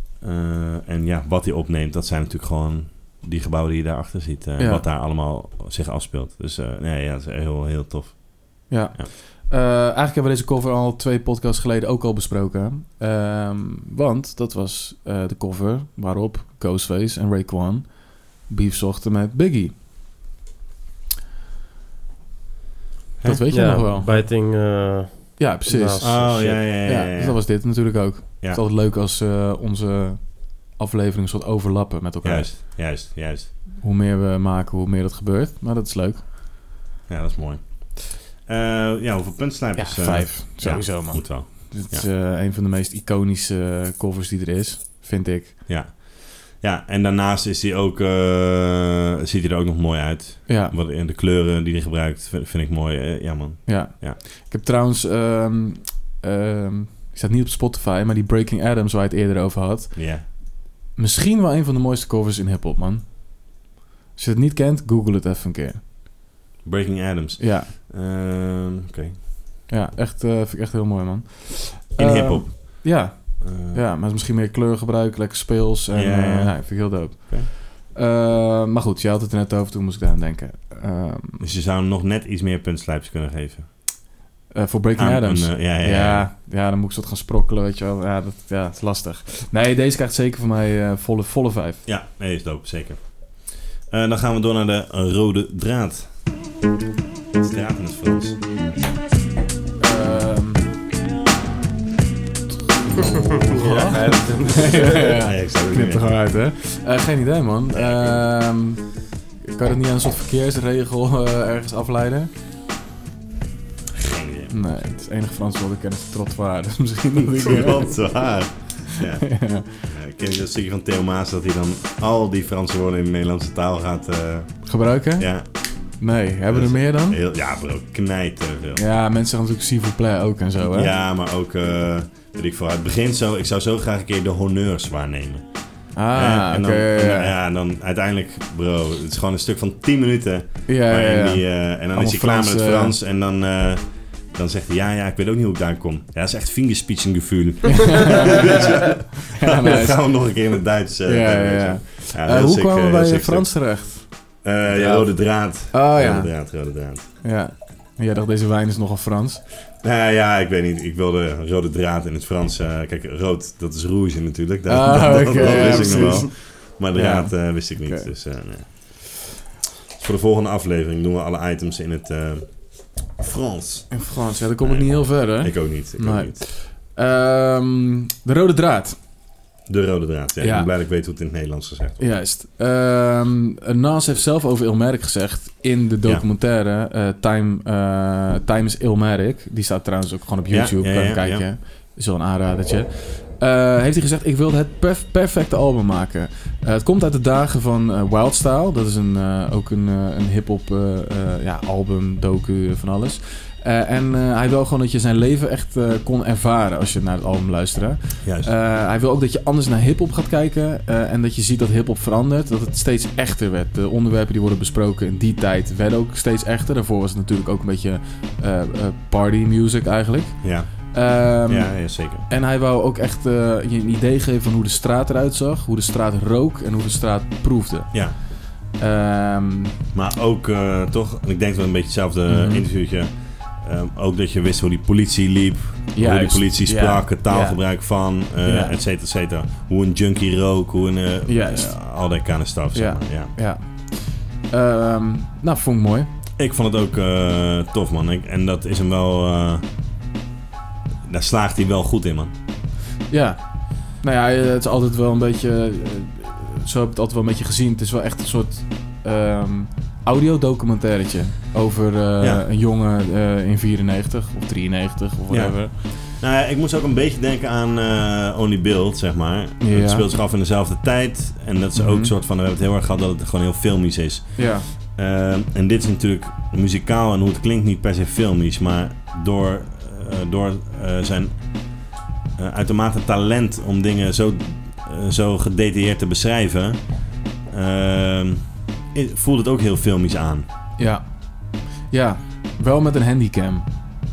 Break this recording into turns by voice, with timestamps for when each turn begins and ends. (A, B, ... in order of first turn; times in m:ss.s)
0:00.2-0:09.1 A
0:04.6-0:04.8 B
0:08.7-0:19.8 B
0:23.2-0:23.7 A
0:23.2-0:24.2 B
0:23.5-0:26.7 C
0:25.4-0:32.5 B
0:26.0-0:27.9 A
0:32.2-0:33.5 A
0:33.8-0:36.5 B
0:37.1-0:42.1 A
0:39.8-0:45.6 B
0:45.7-0:54.2 A
0:50.5-0:50.8 B
0:53.7-1:00.4 B
1:00.0-1:00.3 A
1:01.0-1:03.3 B
1:04.2-1:05.9 B
1:06.6-1:09.2 A
1:07.4-1:07.7 B
1:09.7-1:21.4 B
1:12.0-1:13.8 A
1:15.9-1:17.5 A
1:21.4-1:24.0 A
1:24.5-1:31.8 B
1:25.0-1:26.3 A
1:31.9-1:36.2 A
1:37.4-1:38.4 A
1:39.8-1:40.7 B
1:42.9-1:52.3 B
1:43.4-1:45.2 C
1:45.0-1:46.2 A
1:47.7-1:48.2 A
1:53.9-1:54.5 A
1:54.5-1:58.0 B
1:57.4-2:08.8 A
1:59.3-1:59.7 B
2:04.6-2:07.2 B
2:08.8-2:10.9 B
2:10.7-2:37.1 A
2:15.9-2:17.3 B
2:20.7-2:23.0 B
2:27.8-2:30.5 B
2:31.0-2:35.1 B
2:35.7-2:36.3 B
2:37.2-2:39.4 B
2:39.8-2:49.0 A
2:44.7-2:48.1 B
2:50.0-2:54.1 A
2:53.9-2:59.0 B
2:54.6-2:56.4 A
2:59.7-3:02.0 A
3:00.4-3:00.7 B
3:02.0-3:49.8 B
3:10.5-3:11.5 A
3:28.2-3:28.5 A
3:40.4-3:42.3 A
3:47.9-3:48.2 A
3:49.9-4:03.3 A
3:52.3-3:52.7 B
3:55.9-3:58.8 B
4:01.3-4:02.2 B
4:02.7-4:06.1 B
4:06.4-4:09.6 A
4:11.1-4:12.3 A
4:13.1-4:25.7 B
4:25.3-4:50.5 A
4:29.6-4:30.1 B
4:31.8-4:32.1 B
4:34.4-4:34.7 B
4:50.8-4:53.7 B